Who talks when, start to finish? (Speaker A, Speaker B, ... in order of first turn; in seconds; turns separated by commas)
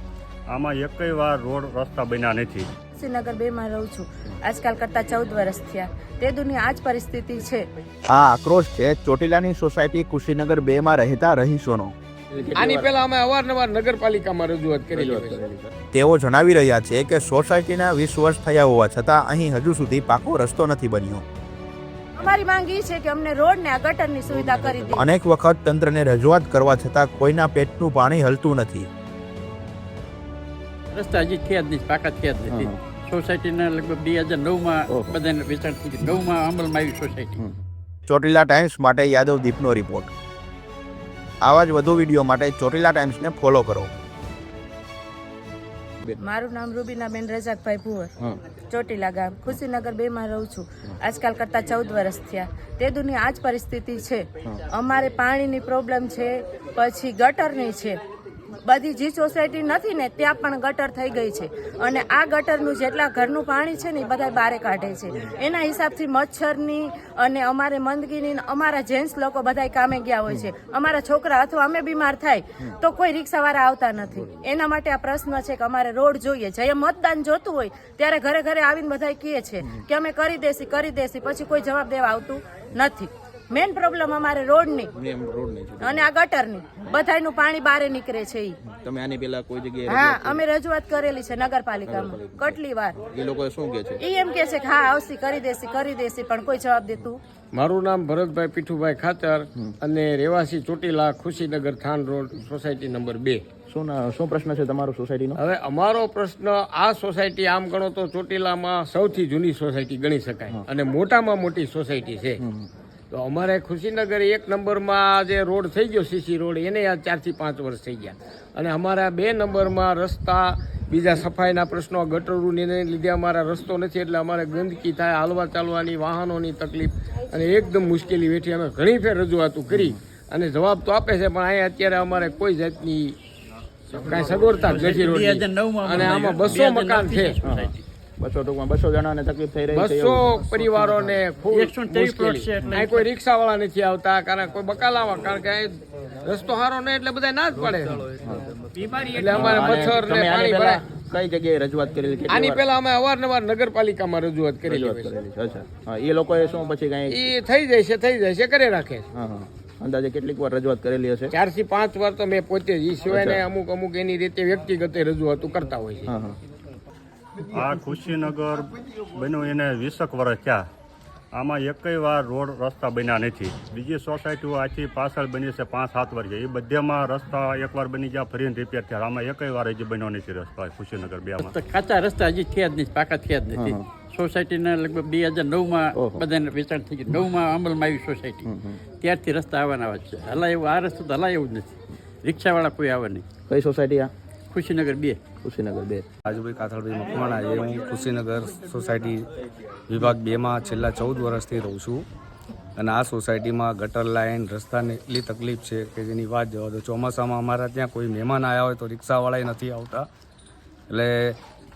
Speaker A: 0.5-2.7, Speaker B: 3.0-7.7, Speaker C: 8.1-11.9, Speaker D: 12.3-12.9, Speaker E: 12.6-15.4, Speaker D: 14.9-15.7, Speaker C: 15.9-21.2, Speaker B: 22.2-25.1, Speaker E: 24.4-25.0, Speaker C: 25.0-28.9, Speaker F: 30.9-37.4, Speaker D: 32.5-32.8, Speaker D: 34.9-35.1, Speaker C: 38.1-40.1, Speaker C: 41.4-43.9, Speaker B: 46.2-48.1, Speaker B: 48.7-58.0, Speaker B: 58.6-84.9, Speaker D: 85.0-86.0, Speaker B: 85.8-88.5, Speaker D: 88.6-90.4, Speaker B: 89.9-93.0, Speaker D: 91.9-94.0, Speaker B: 94.0-97.2, Speaker E: 97.5-103.4, Speaker D: 103.7-105.4, Speaker E: 105.4-112.4, Speaker D: 112.4-112.7, Speaker E: 113.1-133.2, Speaker E: 133.9-137.4, Speaker F: 134.6-137.8, Speaker D: 137.4-140.3, Speaker E: 139.7-148.1, Speaker F: 141.5-143.0, Speaker D: 148.2-148.5, Speaker E: 149.0-150.8, Speaker D: 149.2-152.6, Speaker E: 152.3-155.1, Speaker D: 154.7-157.2, Speaker E: 157.1-159.1, Speaker D: 159.1-161.3, Speaker E: 161.3-166.1, Speaker D: 163.1-163.4, Speaker D: 166.1-166.4, Speaker A: 167.5-170.6, Speaker A: 171.3-181.5, Speaker F: 181.4-188.5, Speaker D: 183.5-183.8, Speaker D: 185.9-186.2, Speaker D: 188.4-188.8, Speaker F: 189.0-193.2, Speaker D: 193.5-194.1, Speaker F: 194.5-195.2, Speaker D: 195.4-196.0, Speaker G: 196.2-199.2, Speaker G: 199.9-202.0, Speaker G: 202.8-210.1, Speaker G: 210.9-211.4